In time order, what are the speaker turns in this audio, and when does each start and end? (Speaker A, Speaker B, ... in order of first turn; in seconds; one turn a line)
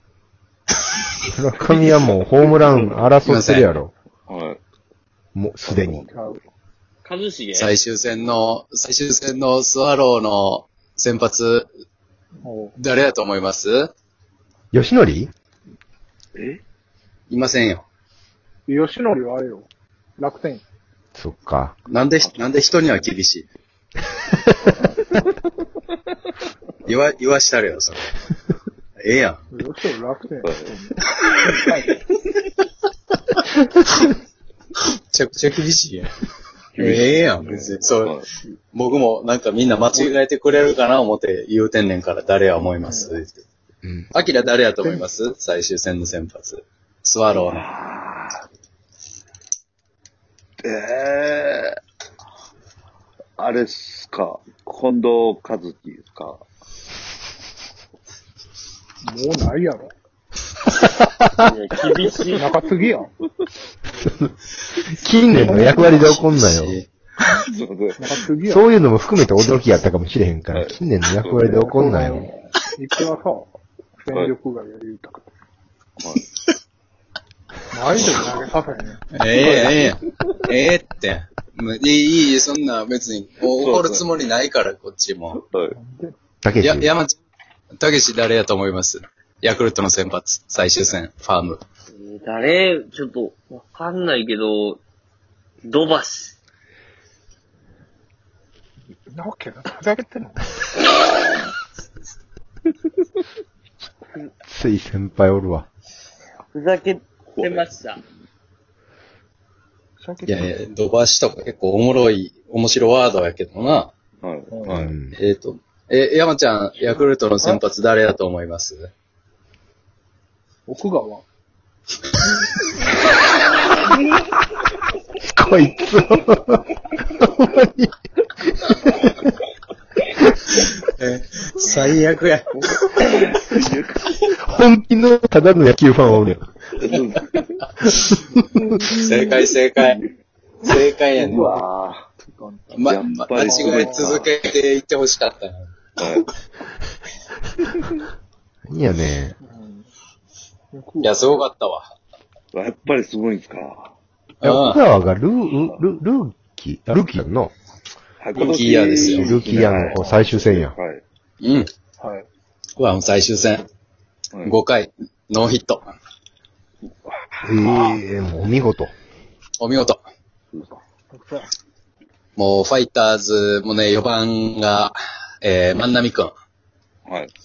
Speaker A: 1.3-3.9
Speaker B: 3.2-3.8
Speaker C: 4.3-4.6
Speaker A: 5.3-6.0
Speaker C: 5.7-6.1
Speaker D: 6.1-6.4
Speaker E: 7.0-7.7
Speaker B: 7.5-11.7
Speaker D: 12.4-12.8
Speaker B: 12.8-13.9
Speaker A: 14.7-15.3
Speaker C: 16.4-16.6
Speaker B: 17.3-17.9
Speaker D: 18.7-19.7
Speaker D: 20.2-20.6
Speaker A: 21.2-21.8
Speaker B: 21.9-23.5
Speaker B: 26.9-28.2
Speaker B: 29.0-29.4
Speaker D: 29.5-32.0
Speaker C: 30.4-30.7
Speaker B: 35.1-36.1
Speaker C: 36.8-38.3
Speaker B: 36.8-43.4
Speaker D: 42.8-43.2
Speaker A: 43.8-44.1
Speaker B: 44.1-47.6
Speaker C: 47.3-48.4
Speaker C: 50.6-51.8
Speaker C: 53.4-56.4
Speaker D: 59.0-59.9
Speaker A: 60.8-61.4
Speaker E: 61.4-62.4
Speaker D: 62.3-63.1
Speaker A: 64.0-64.3
Speaker A: 65.0-66.8
Speaker B: 65.3-66.9
Speaker D: 65.3-66.0
Speaker C: 67.5-68.0
Speaker D: 68.0-68.7
Speaker A: 68.5-72.3
Speaker C: 70.5-71.5
Speaker D: 71.6-75.3
Speaker D: 77.7-79.9
Speaker B: 79.2-85.4
Speaker C: 83.5-84.1
Speaker C: 85.5-85.8
Speaker D: 85.8-86.1
Speaker A: 86.4-86.9
Speaker B: 86.6-87.2
Speaker B: 87.8-91.6
Speaker E: 92.0-94.8
Speaker E: 95.6-96.4
Speaker D: 99.1-100.5
Speaker A: 104.5-105.7
Speaker E: 106.5-108.0
Speaker C: 107.3-107.9
Speaker D: 110.0-110.6
Speaker B: 110.2-113.9
Speaker C: 114.2-114.9
Speaker D: 114.5-114.8
Speaker A: 114.7-115.2
Speaker B: 115.1-118.9
Speaker D: 120.7-121.2
Speaker A: 125.2-127.9
Speaker A: 128.6-129.3
Speaker B: 130.5-133.2
Speaker C: 132.7-134.3
Speaker A: 134.4-136.4
Speaker C: 136.8-137.6
Speaker A: 137.8-138.4
Speaker C: 138.7-140.1
Speaker B: 138.9-140.0
Speaker B: 140.6-141.6
Speaker D: 141.2-141.7
Speaker C: 141.3-142.1
Speaker D: 142.2-142.7
Speaker B: 142.7-145.7
Speaker C: 142.8-144.3
Speaker D: 143.4-144.1
Speaker C: 146.0-146.3
Speaker A: 148.7-149.4
Speaker D: 149.4-149.9
Speaker D: 150.7-151.4
Speaker B: 151.0-151.9
Speaker C: 152.5-153.9
Speaker B: 154.4-154.8
Speaker A: 154.4-157.5
Speaker C: 158.2-161.0
Speaker B: 158.3-159.9
Speaker A: 159.1-160.7
Speaker B: 161.4-161.7
Speaker D: 162.0-162.3
Speaker B: 162.8-163.7
Speaker B: 164.4-165.9
Speaker A: 167.4-168.9
Speaker B: 169.6-170.0
Speaker C: 170.5-170.8
Speaker D: 171.1-171.5
Speaker B: 172.4-176.3
Speaker C: 177.1-177.3